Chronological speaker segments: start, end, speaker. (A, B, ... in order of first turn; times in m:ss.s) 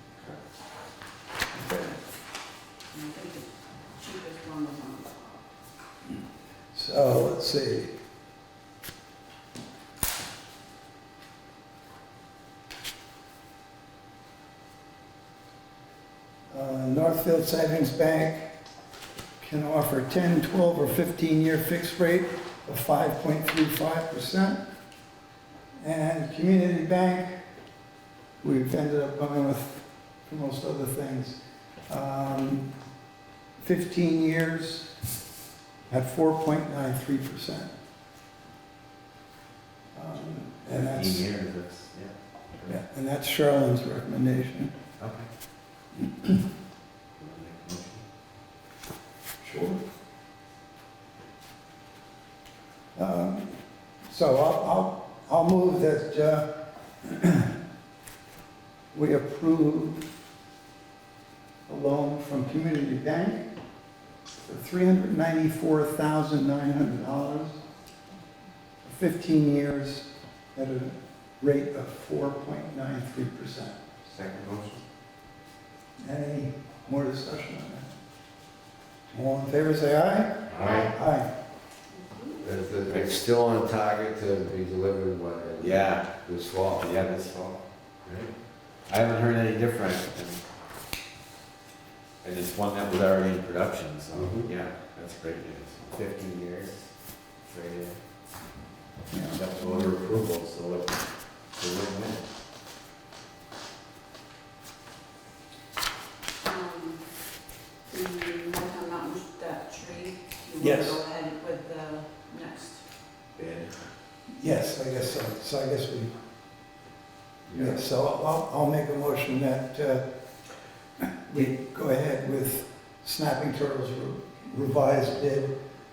0:01.5-0:02.0 A
0:02.9-0:05.4 B
0:06.7-0:07.9 A
0:16.5-0:18.5 A
0:19.4-0:24.6 A
0:25.8-0:27.4 A
0:28.4-0:32.7 A
0:33.6-0:34.9 A
0:35.9-0:37.7 A
0:39.9-0:41.2 A
0:40.7-0:42.8 C
0:42.7-0:44.7 A
0:45.0-0:45.3 C
0:47.2-0:48.0 C
0:49.4-0:49.8 A
0:53.0-0:56.5 A
0:57.0-0:57.5 A
0:58.9-1:00.0 A
1:01.7-1:03.5 A
1:04.4-1:07.6 A
1:08.8-1:13.8 A
1:14.0-1:14.8 C
1:16.0-1:17.9 A
1:19.1-1:21.3 A
1:20.5-1:20.9 D
1:21.9-1:22.4 B
1:22.4-1:26.9 D
1:22.9-1:23.2 C
1:25.6-1:27.6 C
1:28.0-1:28.3 D
1:28.9-1:30.4 C
1:32.2-1:36.9 C
1:34.1-1:34.5 D
1:37.4-1:38.0 C
1:39.1-1:39.4 A
1:39.3-1:41.0 C
1:39.6-1:40.1 B
1:41.5-1:42.2 C
1:46.4-1:47.0 B
1:47.9-1:52.8 B
1:50.6-1:51.0 A
1:53.4-1:53.8 C
1:54.4-1:56.1 A
1:57.5-1:57.8 D
1:57.5-2:00.0 A
2:01.2-2:05.5 A